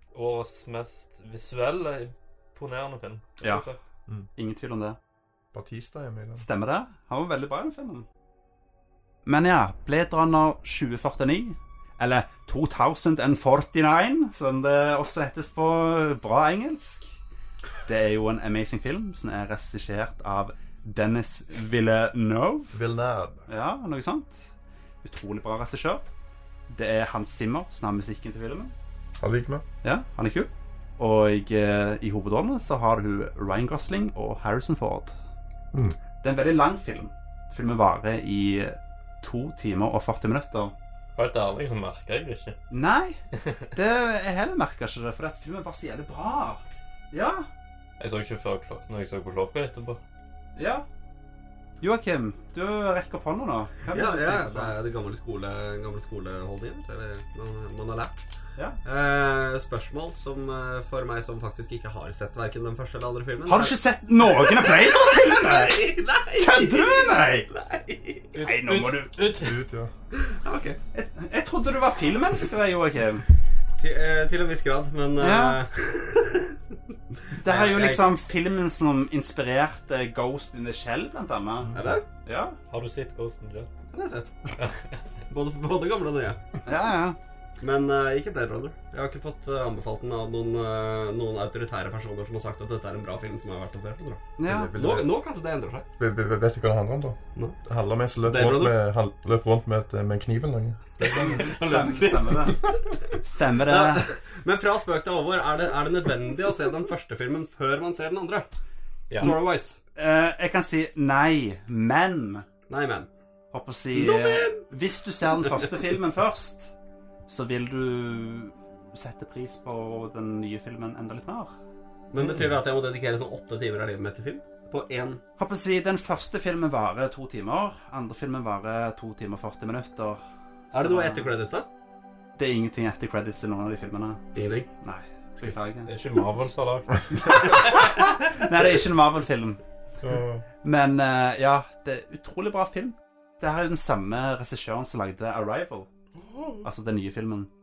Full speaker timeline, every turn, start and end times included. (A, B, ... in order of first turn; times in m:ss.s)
0:00.1-0:03.8 A
0:03.4-0:03.7 B
0:04.3-0:05.0 B
0:05.5-0:06.4 C
0:06.4-0:08.0 B
0:09.2-0:17.1 B
0:17.8-0:22.8 B
0:22.7-0:23.4 C
0:23.5-0:26.1 B
0:26.7-0:28.7 B
0:29.2-0:29.6 C
0:29.8-0:35.2 B
0:35.7-0:36.0 C
0:36.2-0:40.7 B
0:41.1-0:42.6 A
0:42.7-0:43.2 B
0:43.7-0:47.5 B
0:48.0-0:50.0 A
0:50.6-0:50.8 B
0:51.8-0:54.7 B
0:53.9-0:58.2 D
0:58.8-1:03.8 D
1:03.5-1:07.5 B
1:04.3-1:08.3 D
1:08.3-1:09.6 A
1:08.4-1:09.1 B
1:09.3-1:09.9 C
1:10.3-1:10.7 D
1:10.5-1:13.2 B
1:13.8-1:16.6 D
1:15.2-1:15.6 B
1:17.4-1:21.7 B
1:17.4-1:18.1 D
1:21.6-1:22.0 C
1:21.7-1:22.0 D
1:22.2-1:22.6 B
1:22.7-1:23.7 A
1:23.9-1:24.5 D
1:24.6-1:24.8 A
1:25.3-1:26.4 D
1:26.6-1:27.2 B
1:27.6-1:34.2 D
1:34.4-1:34.7 B
1:34.4-1:35.1 C
1:34.8-1:35.9 D
1:36.0-1:41.5 C
1:38.2-1:38.8 D
1:41.0-1:42.4 D
1:41.3-1:44.1 B
1:43.6-1:48.4 D
1:49.1-1:49.3 A
1:49.1-1:49.8 D
1:49.9-1:52.4 B
1:52.7-1:53.1 D
1:53.5-1:56.7 B
1:53.9-1:54.7 D
1:55.3-1:55.7 D
1:57.3-2:01.5 B
2:02.1-2:05.2 D
2:02.2-2:02.6 C
2:05.4-2:10.2 B
2:10.7-2:11.3 B
2:10.7-2:11.6 D
2:12.4-2:14.2 B
2:14.3-2:14.7 D
2:14.8-2:15.9 B
2:15.8-2:17.7 A
2:17.1-2:19.6 B
2:20.0-2:20.4 C
2:20.6-2:25.9 B
2:26.2-2:26.6 C
2:26.6-2:27.5 B